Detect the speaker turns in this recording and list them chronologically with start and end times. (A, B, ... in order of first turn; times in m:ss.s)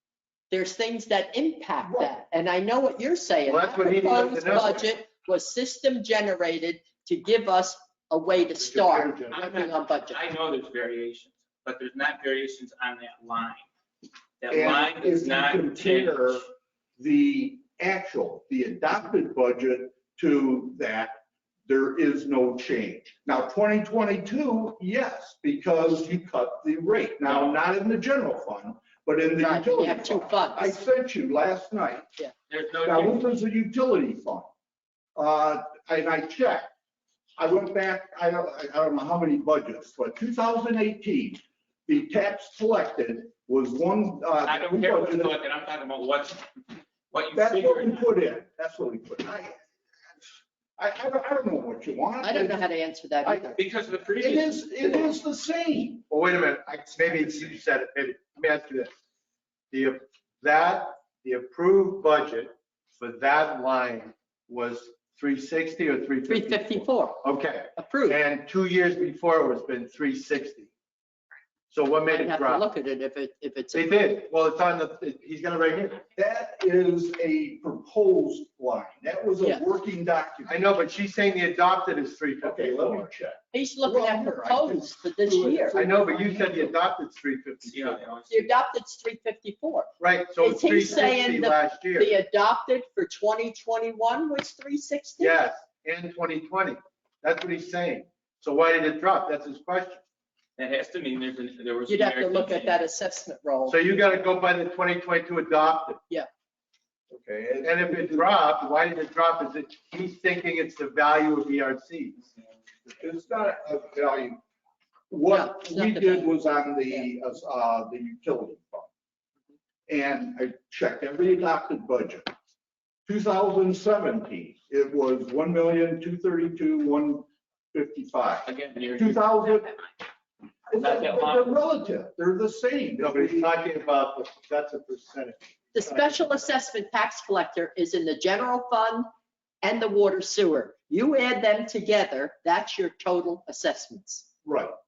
0:00.5-0:10.2 A
0:01.8-0:02.1 B
0:03.4-0:04.9 C
0:08.5-0:09.4 C
0:09.3-0:13.6 D
0:14.4-0:16.4 D
0:14.5-0:32.1 B
0:27.2-0:27.6 D
0:29.4-0:30.8 A
0:32.5-0:33.3 D
0:32.8-0:34.5 B
0:35.2-0:36.7 B
0:37.4-0:45.3 B
0:44.4-0:46.5 D
0:47.1-0:48.1 D
0:47.3-0:49.6 B
0:50.8-0:52.7 B
0:52.2-0:53.5 A
0:53.2-0:53.6 B
0:53.5-0:55.1 D
0:54.2-0:56.0 B
0:56.1-0:58.9 C
0:59.7-1:10.7 C
1:06.3-1:07.2 A
1:07.8-1:08.2 A
1:11.7-1:12.6 C
1:12.1-1:14.1 A
1:13.7-1:16.0 C
1:16.1-1:20.6 B
1:20.5-1:23.1 C
1:22.4-1:26.8 B
1:23.5-1:25.8 A
1:25.7-1:28.0 C
1:27.6-1:28.5 D
1:28.3-1:35.4 A
1:30.0-1:32.1 C
1:35.2-1:40.0 C
1:40.6-1:42.8 D
1:41.9-1:43.8 A
1:43.6-1:46.0 C
1:47.1-1:48.3 B
1:47.6-1:52.2 C
1:52.8-1:54.4 B
1:55.1-1:58.9 B
1:55.3-1:57.1 A
1:59.9-2:02.3 B
2:03.1-2:09.8 B
2:08.4-2:09.8 D
2:10.7-2:13.5 B
2:10.8-2:11.5 D
2:13.0-2:16.2 C
2:15.7-2:19.1 A
2:19.6-2:24.3 A
2:24.4-2:24.7 B